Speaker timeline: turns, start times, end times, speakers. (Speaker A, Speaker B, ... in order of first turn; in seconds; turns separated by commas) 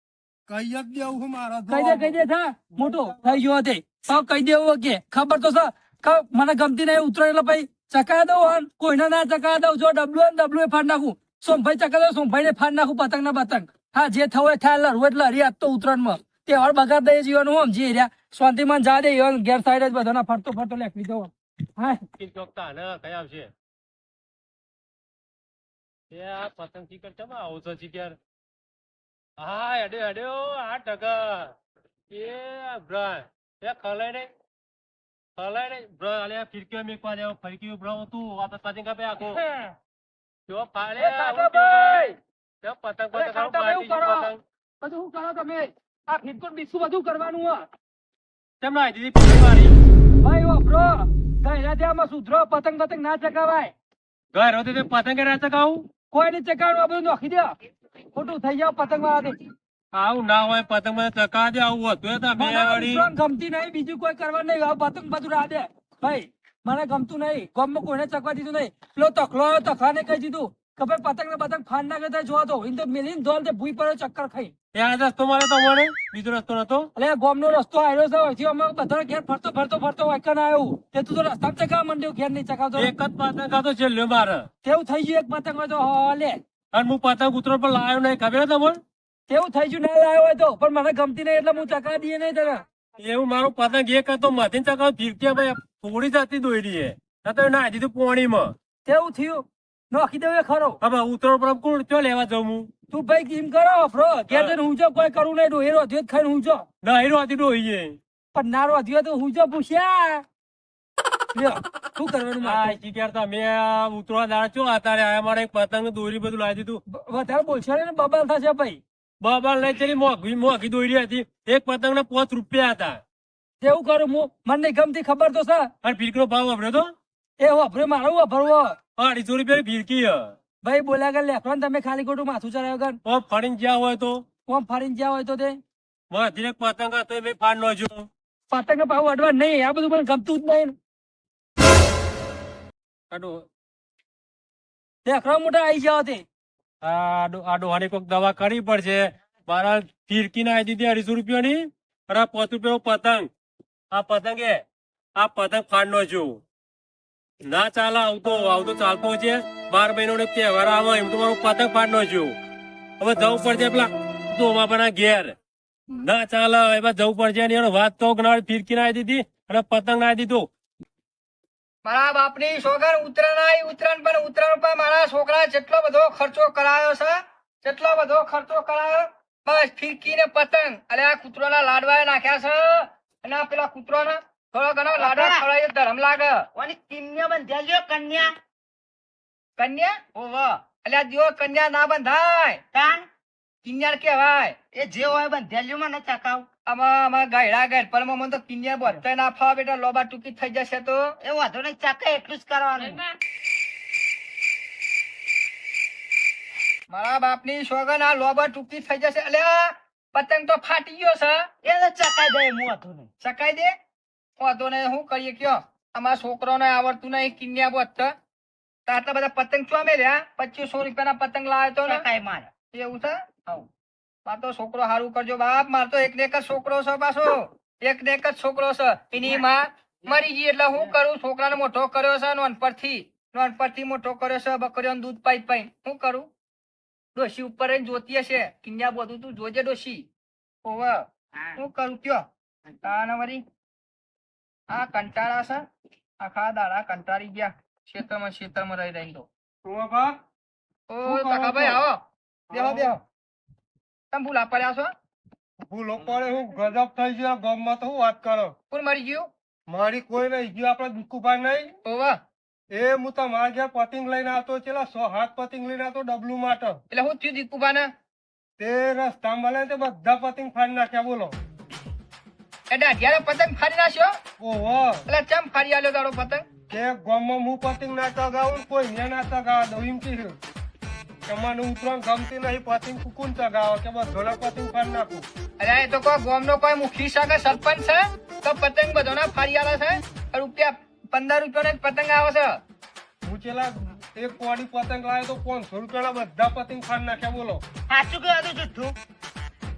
Speaker A: 0.5-2.2, Speaker B: 1.7-22.0, Speaker A: 2.7-3.4, Speaker C: 22.2-23.5, Speaker C: 26.1-28.2, Speaker C: 29.4-31.5, Speaker C: 32.1-34.3, Speaker C: 35.4-39.4, Speaker B: 39.3-39.8, Speaker C: 40.5-44.4, Speaker B: 41.0-42.1, Speaker B: 43.1-44.3, Speaker B: 44.8-47.6, Speaker C: 48.6-49.8, Speaker B: 50.2-53.7, Speaker C: 54.3-55.9, Speaker B: 56.1-57.5, Speaker B: 58.1-59.4, Speaker C: 59.9-63.1, Speaker B: 62.4-74.5, Speaker C: 74.7-76.9, Speaker B: 77.0-82.9, Speaker C: 82.8-84.5, Speaker B: 84.6-86.4, Speaker C: 86.7-88.8, Speaker B: 89.3-92.6, Speaker C: 93.0-98.5, Speaker B: 98.8-100.8, Speaker C: 100.8-102.7, Speaker B: 102.9-106.7, Speaker C: 104.3-104.6, Speaker C: 106.8-108.0, Speaker B: 108.3-110.2, Speaker B: 111.3-112.8, Speaker C: 112.4-116.8, Speaker B: 116.9-118.8, Speaker C: 119.2-123.0, Speaker B: 123.6-125.7, Speaker C: 125.8-126.9, Speaker B: 127.4-128.8, Speaker C: 129.0-130.3, Speaker B: 130.6-133.0, Speaker C: 133.1-134.2, Speaker B: 134.5-135.6, Speaker C: 136.1-138.1, Speaker B: 138.5-140.8, Speaker C: 143.1-143.5, Speaker B: 145.0-146.2, Speaker C: 146.8-153.3, Speaker C: 153.9-154.6, Speaker C: 155.2-156.4, Speaker C: 157.5-162.4, Speaker C: 163.0-165.3, Speaker C: 166.0-170.5, Speaker D: 171.8-186.5, Speaker E: 184.9-185.5, Speaker E: 186.6-188.3, Speaker D: 189.6-190.0, Speaker E: 190.1-190.6, Speaker D: 190.8-192.6, Speaker E: 192.7-193.1, Speaker D: 193.6-194.6, Speaker E: 194.7-196.5, Speaker D: 196.7-201.1, Speaker E: 201.2-203.1, Speaker D: 206.9-211.4, Speaker E: 211.6-213.1, Speaker D: 213.2-213.7, Speaker D: 214.4-218.1, Speaker D: 218.9-222.1, Speaker E: 221.8-222.5, Speaker D: 222.7-223.7, Speaker D: 224.2-236.3, Speaker D: 237.2-240.1, Speaker D: 240.7-242.3, Speaker D: 242.8-243.4, Speaker D: 244.7-245.6, Speaker D: 246.2-249.3, Speaker A: 249.6-250.2, Speaker D: 250.9-253.0, Speaker A: 251.1-251.8, Speaker A: 252.5-252.9, Speaker D: 254.1-254.9, Speaker A: 255.6-258.6, Speaker D: 258.7-259.3, Speaker A: 259.7-261.7, Speaker D: 261.9-262.2, Speaker A: 262.7-266.8, Speaker D: 266.9-267.9, Speaker A: 268.6-271.4, Speaker D: 272.7-274.1, Speaker A: 274.4-275.0, Speaker D: 275.1-276.4, Speaker A: 276.7-280.4, Speaker A: 281.3-285.3, Speaker D: 285.6-292.6, Speaker A: 293.2-297.6, Speaker E: 297.9-299.0